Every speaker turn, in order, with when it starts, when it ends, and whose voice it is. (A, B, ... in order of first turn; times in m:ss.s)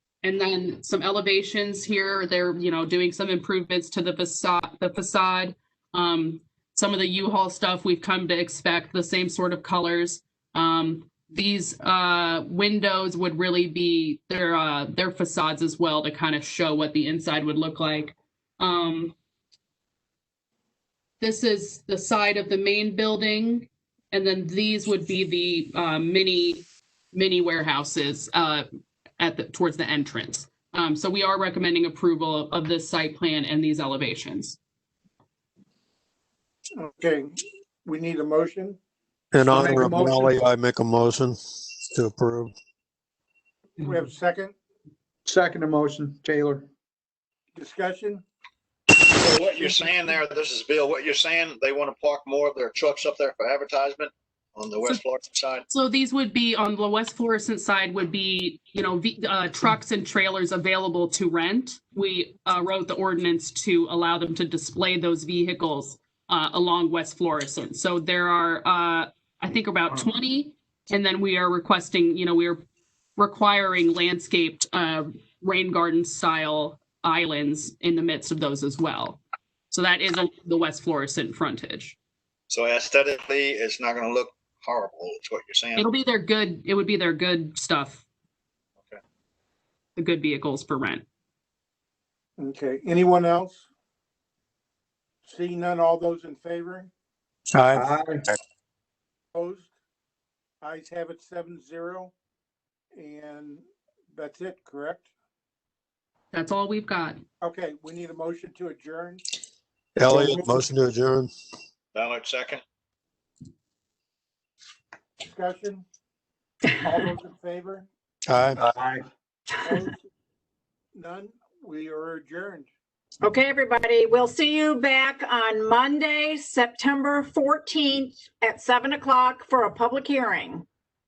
0:00.2-0:19.2 A
0:21.2-0:28.7 A
0:29.2-0:34.6 A
0:36.8-0:37.3 B
0:37.8-0:38.8 B
0:39.3-0:42.5 C
0:39.4-0:40.3 B
0:43.8-0:44.5 B
0:45.2-0:46.7 D
0:47.6-0:48.2 B
0:49.2-0:55.6 E
0:55.7-1:12.6 A
1:13.2-1:22.0 A
1:22.5-1:25.9 E
1:25.8-1:28.0 A
1:30.0-1:31.0 A
1:32.4-1:33.6 B
1:35.2-1:36.9 B
1:37.5-1:37.9 C
1:37.7-1:38.2 D
1:39.3-1:39.7 B
1:40.6-1:42.1 B
1:43.0-1:45.1 B
1:46.3-1:47.2 A
1:47.4-1:49.2 B
1:50.0-1:51.3 C
1:50.1-1:50.6 B
1:52.0-1:52.6 E
1:55.2-1:55.8 B
1:56.8-1:57.9 B
1:58.3-1:58.6 C
1:58.6-1:59.0 D
1:59.6-2:00.0 B
2:01.0-2:02.7 B
2:03.2-2:10.6 F